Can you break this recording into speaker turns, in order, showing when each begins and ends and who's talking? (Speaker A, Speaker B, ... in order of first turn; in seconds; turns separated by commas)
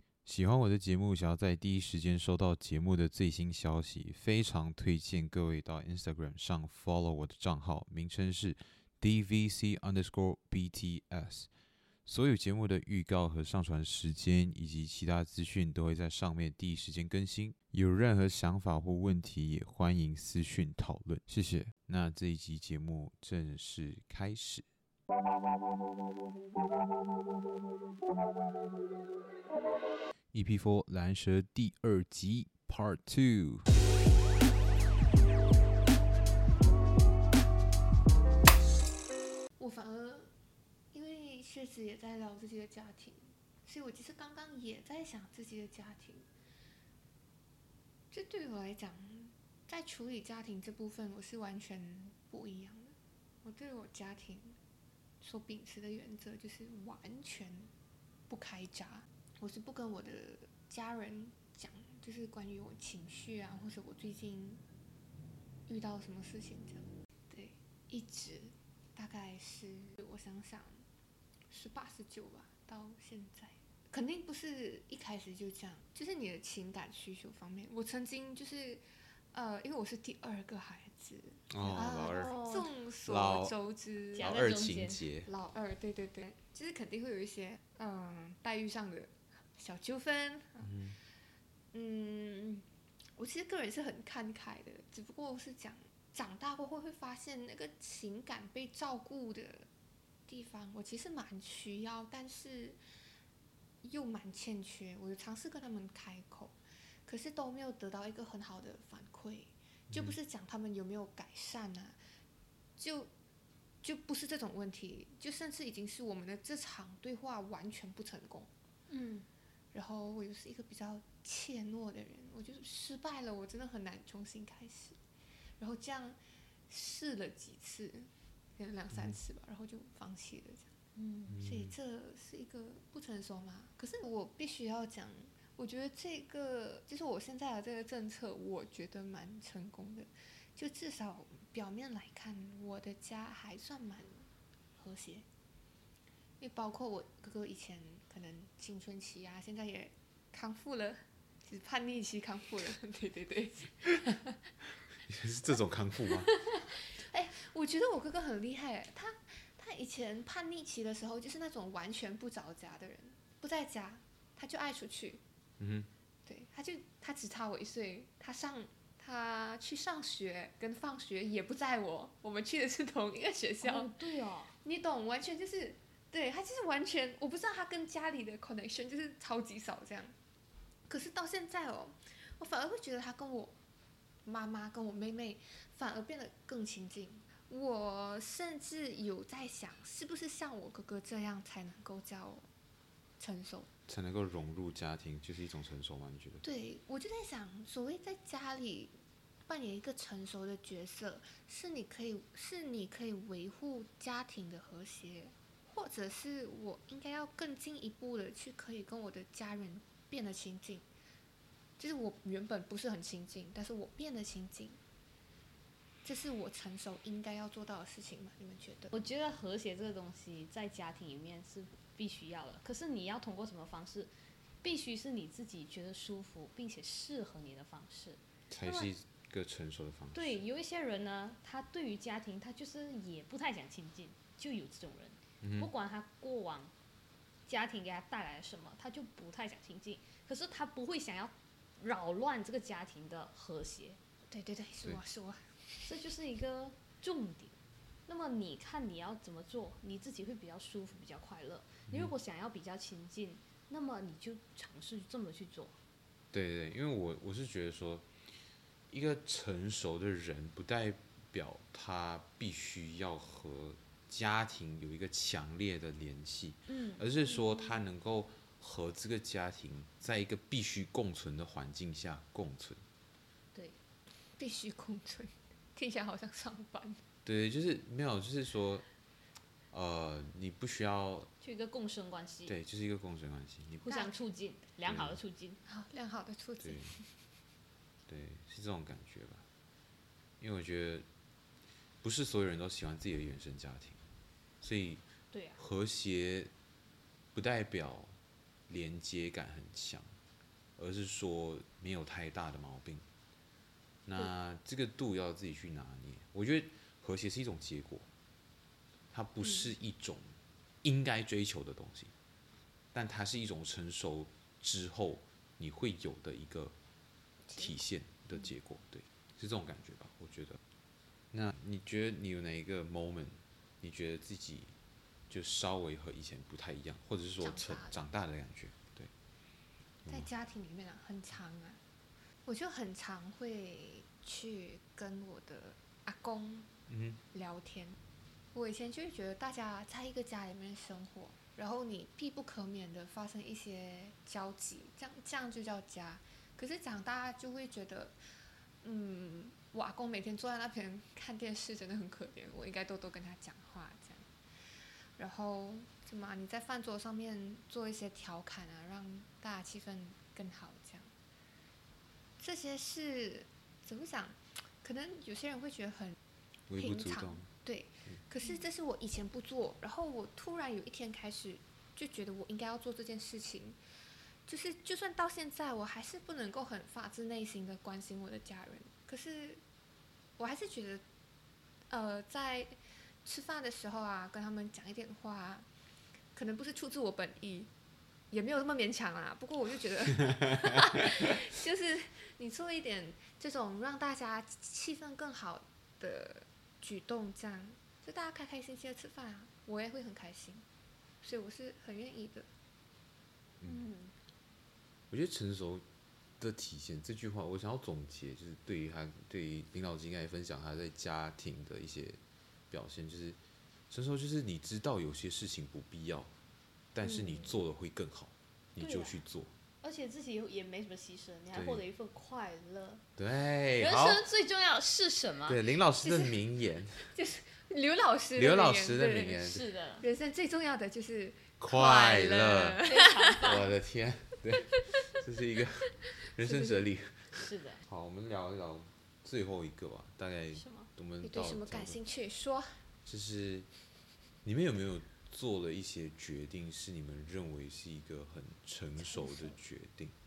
Speaker A: 0.3-11.5, Speaker A: 12.1-24.7, Speaker A: 30.3-33.7, Speaker B: 39.6-40.3, Speaker B: 40.9-46.3, Speaker B: 48.1-54.6, Speaker B: 55.2-57.7, Speaker B: 58.3-64.6, Speaker B: 65.7-70.8, Speaker B: 71.5-84.3, Speaker A: 81.5-82.5, Speaker A: 83.0-83.5, Speaker C: 84.2-85.0, Speaker A: 84.2-85.3, Speaker B: 85.3-90.8, Speaker A: 90.7-91.0, Speaker B: 91.7-99.7, Speaker B: 100.3-102.8, Speaker B: 103.8-112.0, Speaker A: 109.9-110.2, Speaker B: 112.8-113.1, Speaker B: 113.8-118.5, Speaker C: 118.9-119.3, Speaker B: 119.7-125.0, Speaker B: 125.6-126.2, Speaker B: 126.7-130.7, Speaker C: 130.9-131.4, Speaker B: 131.4-145.3, Speaker B: 146.4-154.4, Speaker A: 155.1-156.3, Speaker B: 156.3-165.2, Speaker A: 165.6-165.9, Speaker B: 166.3-173.9, Speaker C: 173.6-174.5, Speaker B: 174.6-180.2, Speaker B: 180.9-183.6, Speaker B: 184.2-192.5, Speaker B: 193.2-193.7, Speaker A: 193.9-196.4, Speaker B: 196.4-198.9, Speaker B: 199.5-210.9, Speaker B: 211.8-214.8, Speaker B: 216.0-218.9, Speaker C: 218.9-228.9, Speaker A: 228.5-230.4, Speaker C: 230.1-236.7, Speaker A: 235.4-235.7, Speaker C: 237.5-244.0, Speaker B: 244.3-245.5, Speaker C: 245.8-247.6, Speaker C: 248.1-255.8, Speaker A: 256.3-258.1, Speaker A: 258.9-272.8, Speaker C: 266.7-267.1, Speaker B: 274.4-277.0, Speaker A: 277.2-278.9, Speaker A: 279.7-281.3, Speaker C: 281.4-282.5, Speaker A: 282.5-284.1, Speaker C: 283.8-285.6, Speaker A: 284.9-285.2, Speaker B: 285.7-287.1, Speaker A: 286.6-287.0, Speaker A: 288.1-289.4, Speaker A: 290.4-291.1, Speaker A: 292.0-294.0, Speaker A: 294.6-295.0, Speaker C: 295.3-295.6, Speaker A: 295.6-296.5, Speaker A: 297.4-298.2, Speaker A: 298.7-300.1, Speaker A: 300.8-303.1, Speaker A: 304.1-308.1, Speaker A: 309.1-312.1, Speaker A: 312.9-316.8, Speaker A: 317.6-320.6, Speaker A: 321.3-324.7, Speaker A: 325.3-329.1, Speaker B: 327.4-328.0, Speaker B: 330.1-331.8, Speaker B: 332.5-336.7, Speaker A: 336.9-337.2, Speaker B: 337.3-338.0, Speaker B: 338.5-348.2, Speaker B: 348.8-354.3, Speaker B: 355.2-361.1, Speaker B: 362.4-366.2, Speaker A: 366.7-367.5, Speaker B: 366.8-373.8, Speaker B: 374.5-379.6, Speaker B: 380.4-381.0, Speaker B: 381.9-385.7, Speaker B: 386.4-387.7, Speaker B: 388.3-400.7, Speaker B: 401.2-402.5, Speaker C: 403.7-404.1, Speaker A: 405.1-405.9, Speaker A: 406.4-412.2, Speaker A: 412.7-413.4, Speaker A: 413.9-416.3, Speaker A: 416.9-419.5, Speaker C: 418.8-419.2, Speaker C: 419.8-423.0, Speaker A: 421.5-421.8, Speaker A: 423.2-424.2, Speaker C: 423.8-425.6, Speaker A: 425.5-427.1, Speaker B: 426.0-426.4, Speaker B: 427.1-433.5, Speaker A: 428.4-429.6, Speaker C: 429.4-430.1, Speaker A: 431.6-432.8, Speaker C: 432.8-433.7, Speaker A: 433.4-442.0, Speaker B: 436.4-436.8, Speaker C: 437.4-437.8, Speaker C: 440.6-440.9, Speaker B: 441.2-442.8, Speaker A: 443.1-443.7, Speaker A: 444.4-450.1, Speaker B: 449.1-449.6